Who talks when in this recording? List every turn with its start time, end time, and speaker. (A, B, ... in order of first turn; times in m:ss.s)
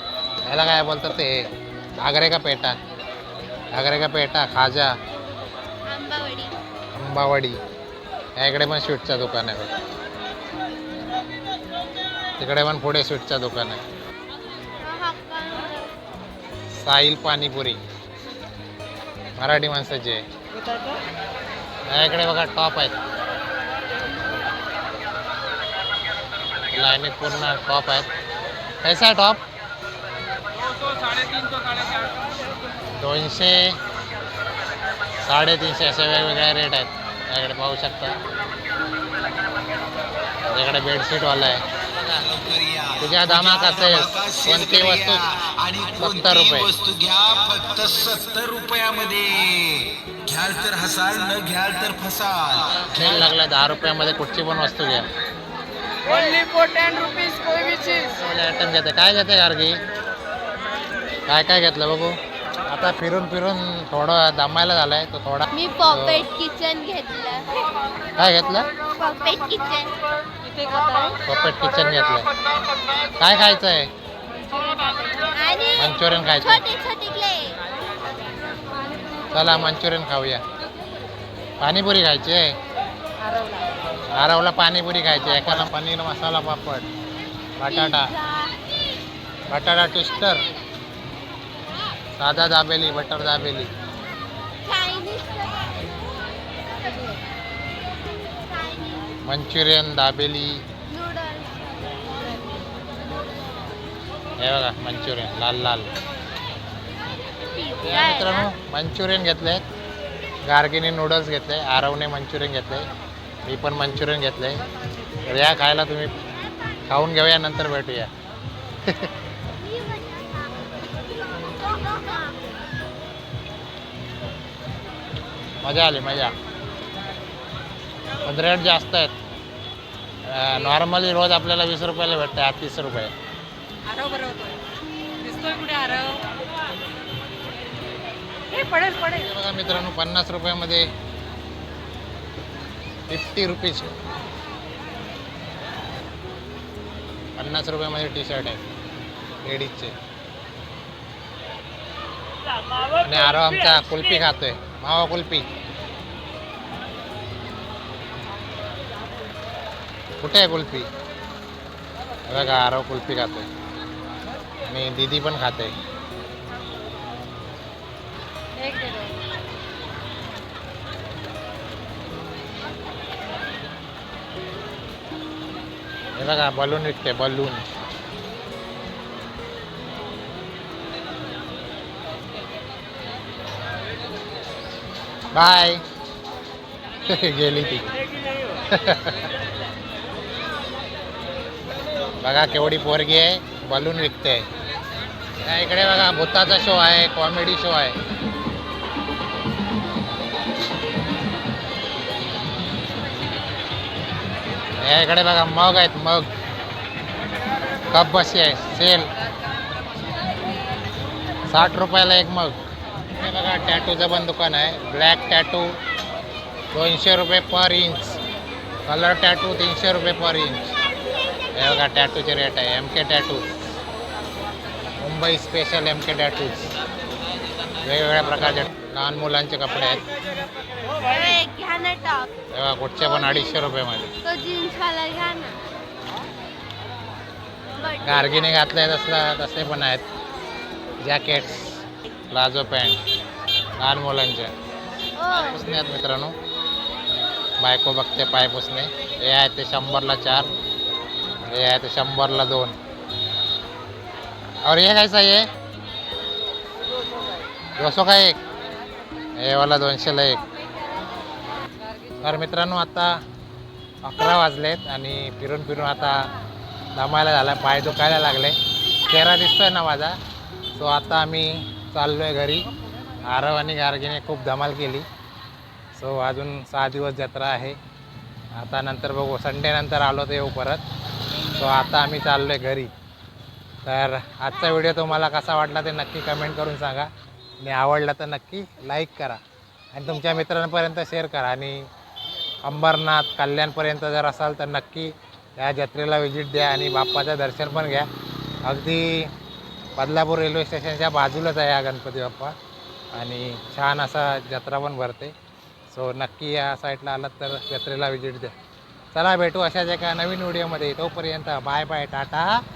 0:00.5-0:01.4 A
0:02.0-0:02.7 A
0:03.7-0:04.9 A
0:05.9-0:06.5 B
0:06.9-0:07.6 A
0:08.4-0:09.7 A
0:12.4-0:13.8 A
0:14.8-0:15.9 B
0:16.7-0:17.8 A
0:19.4-0:20.2 A
0:21.9-0:22.9 A
0:26.7-0:28.1 A
0:28.8-0:29.4 A
0:33.0-0:33.8 A
0:35.2-0:38.2 A
0:40.5-0:42.2 A
0:42.2-0:53.3 C
0:43.0-0:45.2 A
0:46.0-0:46.7 A
0:52.9-0:55.0 A
0:56.1-0:58.0 D
0:57.1-0:57.3 B
0:58.1-0:59.8 A
1:01.3-1:02.2 A
1:02.7-1:06.2 A
1:05.5-1:07.6 B
1:08.2-1:08.7 A
1:08.9-1:09.9 B
1:10.4-1:11.2 D
1:11.2-1:12.3 A
1:13.2-1:13.9 A
1:14.3-1:15.3 D
1:15.3-1:17.6 B
1:15.8-1:16.6 A
1:19.3-1:20.4 A
1:21.6-1:22.5 A
1:23.2-1:23.7 D
1:24.1-1:26.9 A
1:27.6-1:28.1 A
1:27.7-1:28.6 B
1:29.5-1:30.4 A
1:32.2-1:33.7 A
1:34.6-1:37.2 B
1:38.3-1:39.1 B
1:39.2-1:40.6 A
1:40.9-1:42.0 B
1:44.4-1:45.9 A
1:47.4-1:48.5 B
1:47.8-1:49.6 A
1:50.4-1:52.9 A
1:53.4-1:54.6 A
1:55.2-1:56.2 A
1:56.9-1:58.1 A
1:59.6-2:02.4 B
2:05.6-2:06.3 A
2:08.2-2:09.1 A
2:10.2-2:13.1 A
2:13.8-2:14.6 D
2:15.2-2:16.3 D
2:18.5-2:19.3 D
2:19.2-2:20.9 A
2:23.1-2:23.9 A
2:27.4-2:28.6 A
2:29.4-2:29.9 A
2:33.0-2:35.5 A
2:40.2-2:40.9 A
2:42.2-2:43.5 A
2:44.7-2:45.7 A
2:48.6-2:49.2 D
2:56.2-2:57.6 A
3:05.3-3:05.8 A
3:07.1-3:07.9 A
3:08.7-3:09.2 A
3:12.2-3:14.4 A
3:15.4-3:18.0 A
3:24.8-3:26.3 A
3:27.9-3:29.1 A
3:30.1-3:30.8 D
3:31.5-3:32.6 A
3:33.1-3:35.8 A
3:36.7-3:38.2 A
3:38.9-3:40.7 A
3:41.6-3:43.5 A
3:45.0-3:46.7 A
3:47.8-3:50.0 A
3:51.0-3:52.3 B
3:52.5-3:54.1 A
3:53.0-3:53.6 B
3:54.2-3:55.6 B
3:57.7-3:58.6 B
3:58.0-4:00.0 A
4:01.0-4:03.0 A
4:03.8-4:04.5 A
4:05.2-4:05.6 B
4:05.3-4:06.3 A
4:07.6-4:10.5 A
4:11.4-4:12.8 A
4:14.6-4:15.5 A
4:17.8-4:18.4 A
4:19.4-4:20.4 A
4:20.5-4:22.5 D
4:22.2-4:23.2 A
4:24.0-4:26.3 A
4:26.9-4:30.2 A
4:29.0-4:29.4 B
4:30.8-4:32.7 A
4:33.2-4:35.0 A
4:36.0-4:37.8 A
4:38.6-4:40.8 A
4:41.3-4:42.2 B
4:41.5-4:42.9 A
4:43.8-4:47.1 A
4:47.6-4:49.4 A
4:49.9-4:51.8 A
4:52.6-4:58.1 A
4:58.6-4:59.3 A
5:00.0-5:02.5 A
5:03.1-5:05.3 A
5:05.9-5:08.5 A
5:09.1-5:12.6 A